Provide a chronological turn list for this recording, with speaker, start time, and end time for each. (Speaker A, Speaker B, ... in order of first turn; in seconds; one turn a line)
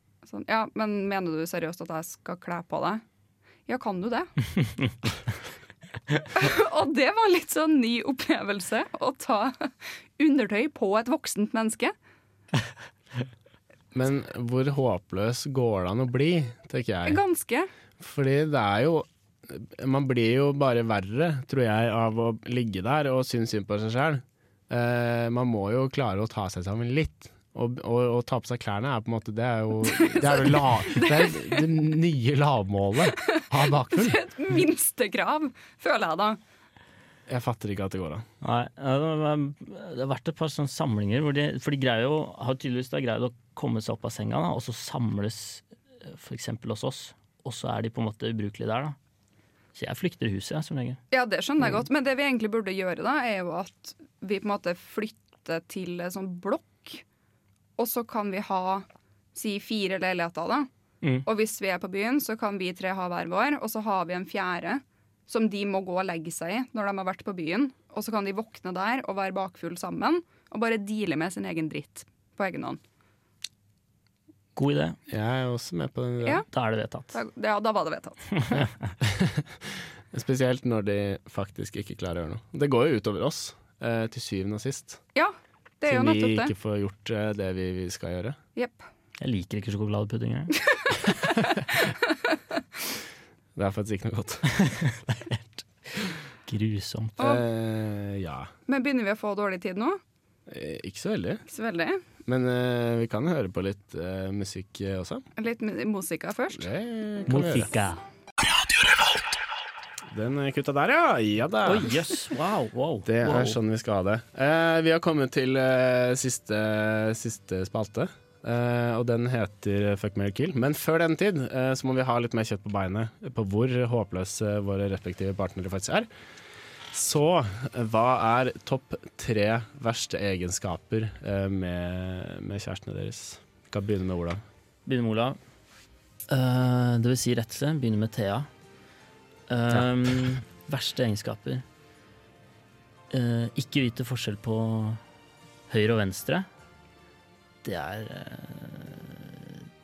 Speaker A: 0.2-3.0
Speaker A: 3.7-4.3
Speaker A: 6.3-11.9
Speaker B: 13.9-17.2
Speaker A: 17.1-17.7
Speaker B: 18.0-34.2
Speaker A: 29.9-31.6
Speaker A: 33.2-36.4
Speaker B: 37.3-38.2
Speaker C: 38.4-49.0
Speaker C: 49.7-51.0
Speaker A: 51.1-57.0
Speaker A: 57.8-60.7
Speaker A: 61.2-72.8
Speaker C: 74.6-75.0
Speaker B: 75.1-76.4
Speaker C: 76.5-77.2
Speaker A: 77.1-78.4
Speaker B: 79.0-85.0
Speaker A: 85.2-86.5
Speaker B: 85.9-88.4
Speaker C: 89.2-90.5
Speaker B: 93.6-94.5
Speaker C: 94.5-95.7
Speaker C: 96.5-97.2
Speaker B: 97.2-98.5
Speaker A: 98.7-100.0
Speaker B: 100.5-101.4
Speaker A: 101.5-102.0
Speaker B: 102.3-105.2
Speaker A: 105.4-106.7
Speaker B: 106.5-107.7
Speaker C: 107.3-108.0
Speaker B: 110.1-111.9
Speaker C: 111.7-113.6
Speaker B: 113.1-126.1
Speaker B: 126.9-134.4
Speaker C: 134.9-135.4
Speaker C: 136.3-138.5
Speaker C: 139.5-141.7
Speaker C: 143.1-145.0
Speaker C: 145.7-146.5
Speaker C: 147.6-149.7